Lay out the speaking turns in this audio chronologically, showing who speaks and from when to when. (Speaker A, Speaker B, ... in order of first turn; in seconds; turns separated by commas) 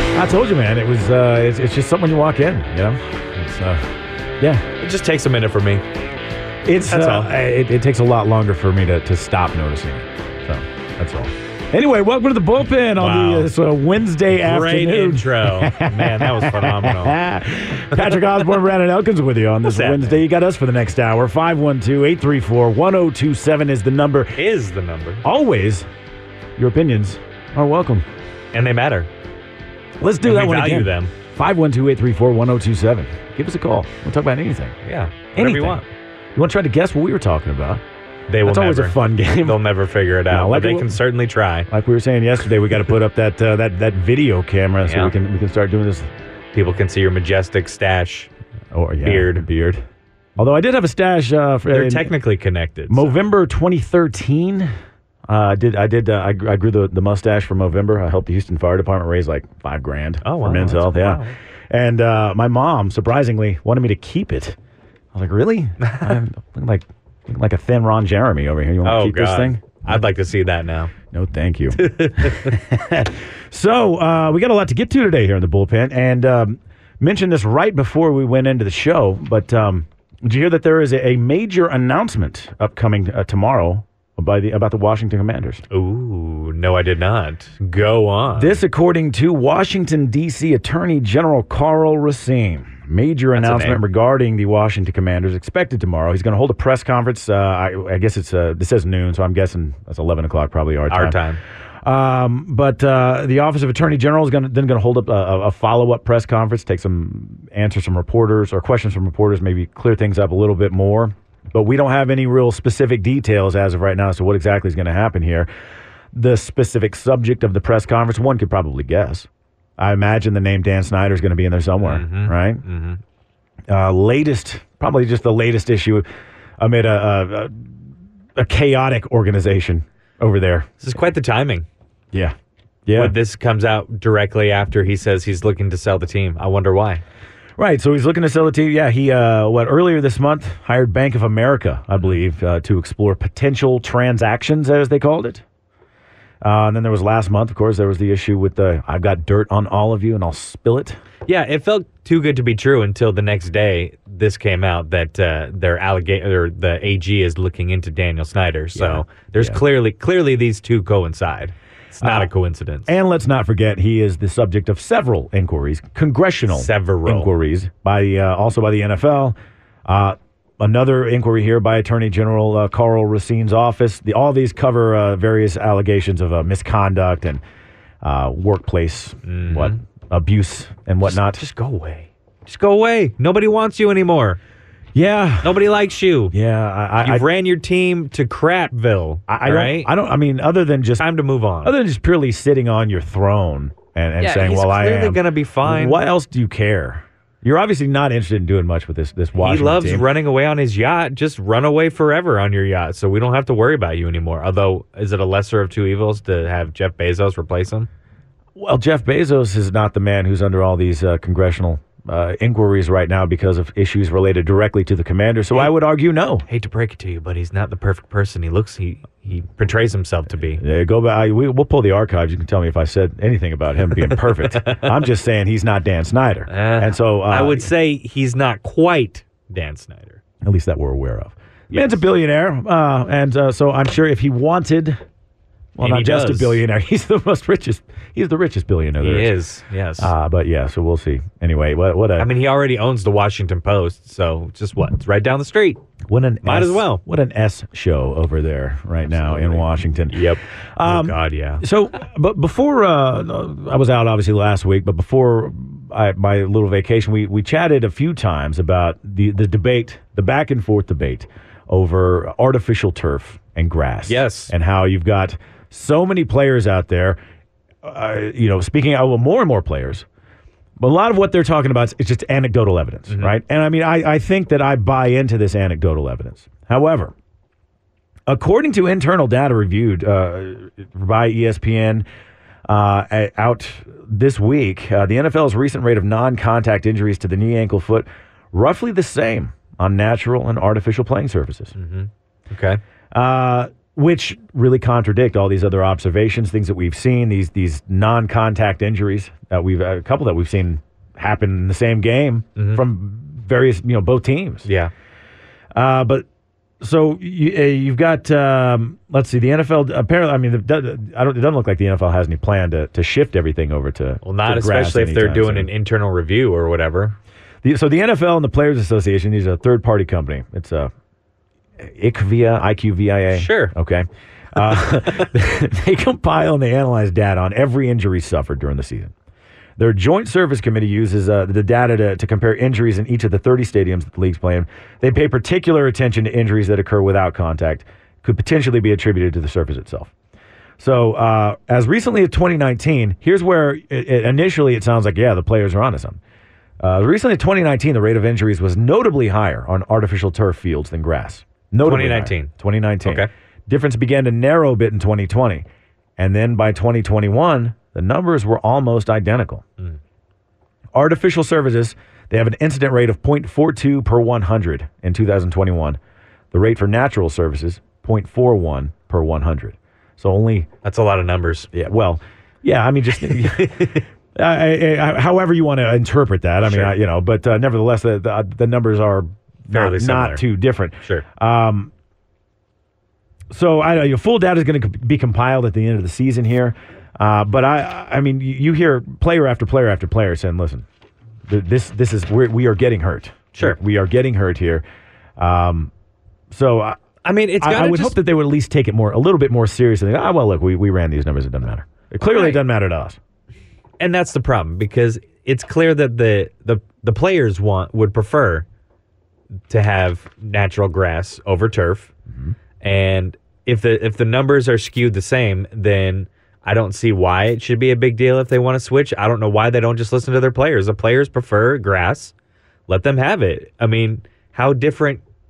Speaker A: 0.1-4.7, Speaker B: 4.8-5.8, Speaker A: 6.6-24.4, Speaker B: 6.9-7.3, Speaker B: 13.0-13.5, Speaker B: 14.3-17.2, Speaker B: 19.7-20.2, Speaker B: 24.4-25.2, Speaker A: 25.2-25.9, Speaker A: 26.6-28.1, Speaker B: 28.5-29.1, Speaker A: 30.0-34.7, Speaker B: 30.2-31.1, Speaker B: 34.8-35.8, Speaker A: 35.3-35.8, Speaker A: 36.3-37.8, Speaker B: 38.3-41.7, Speaker A: 38.4-39.6, Speaker A: 40.3-41.0, Speaker A: 41.7-46.1, Speaker B: 44.8-45.1, Speaker B: 46.5-48.3, Speaker A: 48.7-49.8, Speaker B: 49.0-49.4, Speaker A: 50.4-52.1, Speaker B: 51.7-53.1, Speaker A: 52.9-54.7, Speaker A: 55.3-64.6, Speaker B: 60.2-61.3, Speaker A: 65.1-70.0, Speaker B: 65.8-66.2, Speaker B: 68.8-70.9, Speaker A: 71.1-85.6, Speaker B: 71.8-72.5, Speaker B: 85.7-88.6, Speaker A: 88.3-101.2, Speaker B: 93.3-93.8, Speaker B: 100.9-101.4, Speaker A: 101.8-115.5, Speaker A: 116.1-122.6, Speaker B: 121.8-123.0, Speaker A: 123.7-126.1, Speaker A: 126.6-127.7, Speaker A: 128.4-130.8, Speaker B: 130.8-131.7, Speaker A: 132.9-133.2, Speaker B: 132.9-137.0, Speaker A: 137.6-145.4, Speaker A: 146.4-151.0, Speaker B: 151.2-162.9, Speaker A: 158.8-159.6, Speaker A: 162.0-162.3, Speaker A: 162.9-177.4, Speaker B: 166.5-167.3, Speaker A: 178.0-181.4, Speaker B: 179.2-179.8, Speaker B: 181.1-184.4, Speaker A: 184.9-185.6, Speaker B: 185.4-186.3, Speaker A: 186.3-187.2, Speaker B: 187.0-189.9, Speaker A: 189.3-191.1, Speaker B: 191.0-191.7, Speaker A: 191.6-200.1, Speaker B: 194.2-196.0, Speaker B: 199.4-207.9, Speaker A: 208.6-216.4, Speaker B: 216.5-220.6, Speaker A: 220.6-227.7, Speaker B: 224.5-224.9, Speaker B: 226.5-230.2, Speaker A: 230.4-235.0, Speaker B: 231.7-232.0, Speaker A: 235.8-239.3, Speaker B: 235.8-236.6, Speaker B: 239.0-240.1, Speaker A: 240.0-242.3, Speaker B: 242.2-245.8, Speaker A: 246.1-267.2, Speaker B: 246.4-247.0, Speaker B: 249.1-251.6, Speaker B: 264.1-264.5, Speaker A: 267.8-270.0, Speaker A: 270.8-277.1, Speaker A: 278.3-282.1, Speaker A: 282.6-291.7, Speaker B: 291.8-292.8, Speaker A: 293.1-304.7, Speaker B: 302.6-302.8, Speaker B: 304.6-304.9, Speaker A: 305.7-306.2, Speaker A: 306.8-315.7, Speaker B: 314.2-317.2, Speaker A: 317.6-320.9, Speaker A: 321.8-329.1, Speaker B: 323.3-323.7, Speaker A: 329.8-340.1, Speaker A: 340.8-346.2, Speaker A: 346.8-355.6, Speaker B: 351.8-352.5, Speaker B: 353.0-353.3, Speaker A: 356.2-359.6, Speaker A: 360.9-366.0, Speaker A: 366.5-370.7, Speaker B: 370.8-371.7, Speaker A: 371.7-381.9, Speaker B: 373.3-374.0, Speaker B: 376.6-376.9, Speaker B: 379.7-380.4, Speaker A: 383.5-390.9, Speaker A: 391.5-394.8, Speaker A: 395.4-395.9, Speaker A: 396.5-397.0, Speaker B: 397.2-398.2, Speaker A: 397.6-403.2, Speaker B: 402.3-402.6, Speaker B: 404.0-408.6, Speaker B: 409.7-412.1, Speaker B: 412.8-422.3, Speaker B: 422.9-425.2